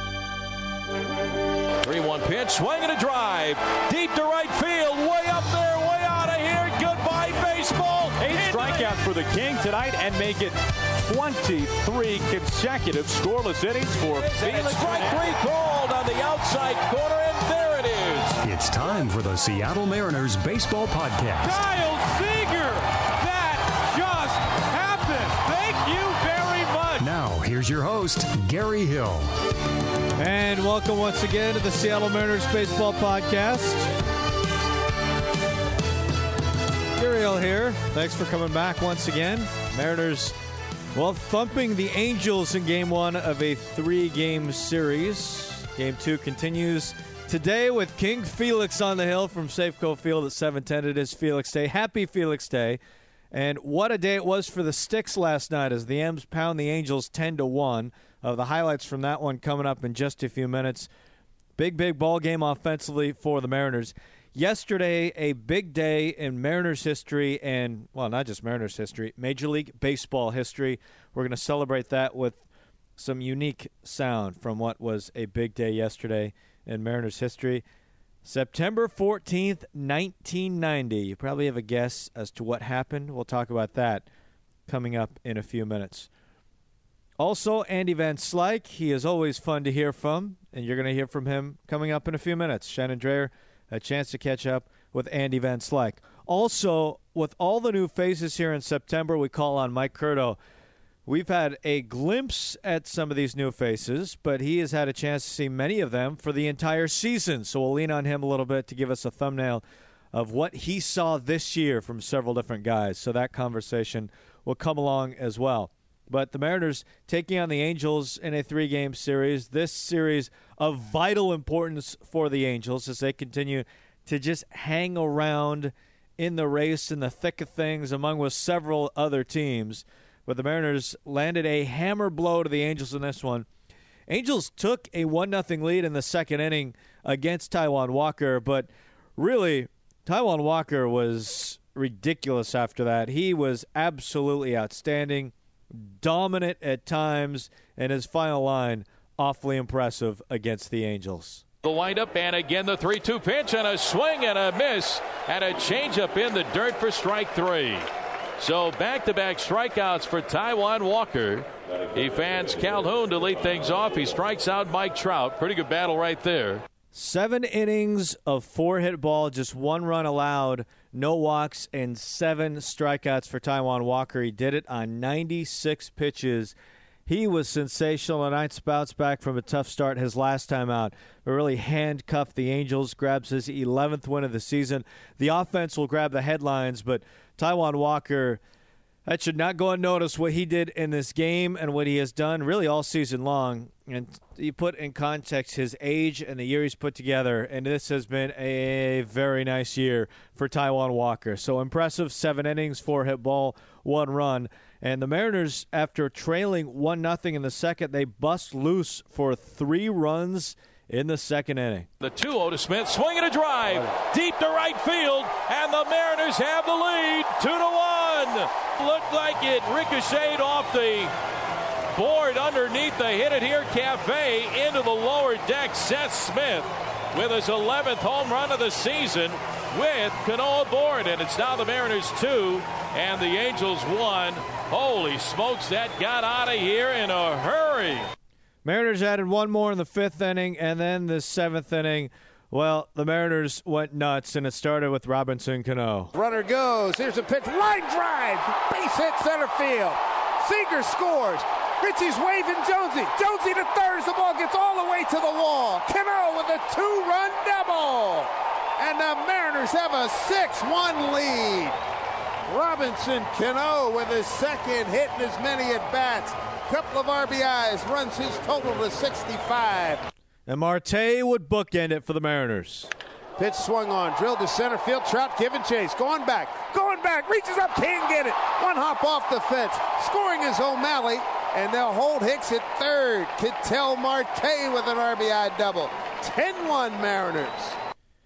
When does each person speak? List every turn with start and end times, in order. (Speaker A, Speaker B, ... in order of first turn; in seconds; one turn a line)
Speaker A: 1.8-9.0
Speaker B: 8.2-15.4
Speaker A: 14.1-18.3
Speaker C: 18.4-21.6
Speaker B: 21.4-27.0
Speaker C: 27.0-29.3
Speaker D: 30.2-33.9
Speaker D: 37.0-40.4
Speaker D: 40.9-52.8
Speaker D: 53.3-60.9
Speaker D: 61.6-72.4
Speaker D: 73.0-77.6
Speaker D: 78.2-84.1
Speaker D: 84.7-86.1
Speaker D: 87.2-100.4
Speaker D: 101.0-133.5
Speaker D: 134.1-151.4
Speaker A: 151.6-157.9
Speaker A: 158.4-166.6
Speaker D: 166.9-176.5
Speaker D: 177.1-188.4
Speaker D: 189.1-211.9
Speaker A: 212.0-221.1
Speaker A: 221.9-238.1
Speaker D: 238.6-246.1
Speaker E: 246.1-261.7
Speaker E: 262.5-270.1
Speaker D: 270.4-272.9
Speaker E: 273.4-287.8